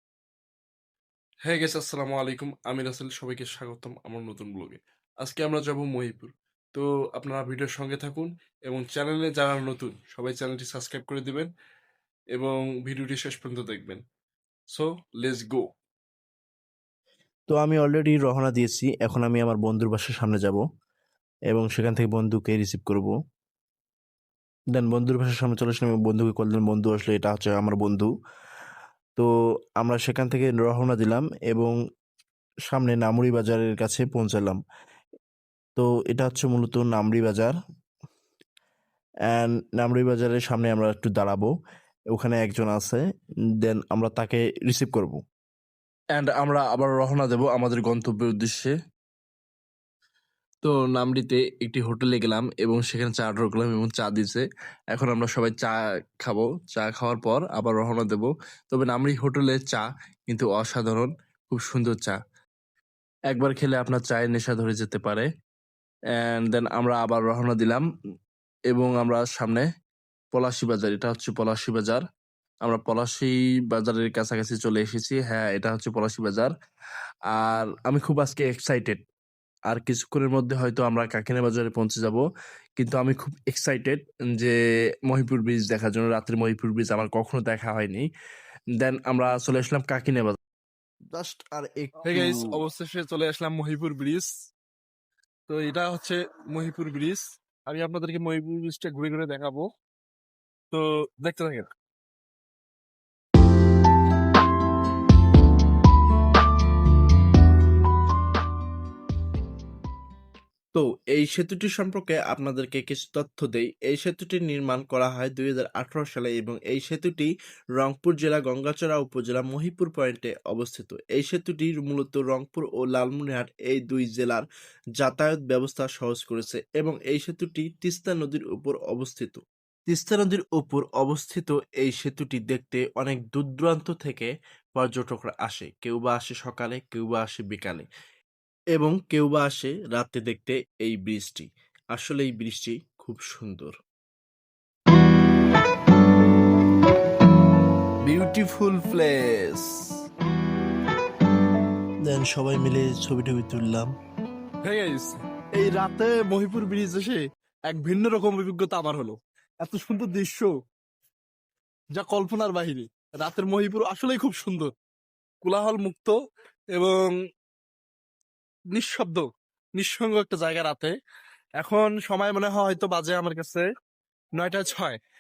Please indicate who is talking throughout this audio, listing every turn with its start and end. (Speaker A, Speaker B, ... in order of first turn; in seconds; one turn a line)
Speaker A: 1.4-11.5
Speaker A: 12.3-14.0
Speaker A: 14.7-15.7
Speaker B: 17.5-20.6
Speaker B: 21.5-23.2
Speaker B: 24.7-28.1
Speaker B: 29.8-31.8
Speaker B: 32.7-34.6
Speaker B: 35.8-37.6
Speaker B: 39.3-41.5
Speaker B: 42.1-43.0
Speaker B: 43.6-45.2
Speaker A: 46.2-48.4
Speaker B: 48.4-48.7
Speaker B: 50.6-62.2
Speaker B: 63.3-65.3
Speaker B: 66.2-67.8
Speaker B: 68.7-69.7
Speaker B: 70.3-72.0
Speaker B: 72.7-76.5
Speaker B: 77.3-79.0
Speaker B: 79.7-82.2
Speaker B: 82.8-84.6
Speaker B: 85.1-88.1
Speaker B: 88.8-90.4
Speaker B: 91.1-92.5
Speaker A: 92.0-94.3
Speaker A: 95.5-99.7
Speaker A: 100.7-101.7
Speaker B: 110.7-124.5
Speaker B: 125.0-137.9
Speaker B: 138.8-143.8
Speaker B: 148.1-149.9
Speaker B: 152.1-153.9
Speaker A: 154.7-160.5
Speaker A: 161.9-164.7
Speaker A: 165.4-166.2
Speaker A: 166.8-167.1
Speaker A: 168.7-169.2
Speaker A: 169.8-170.9
Speaker A: 171.6-173.7
Speaker A: 174.4-175.0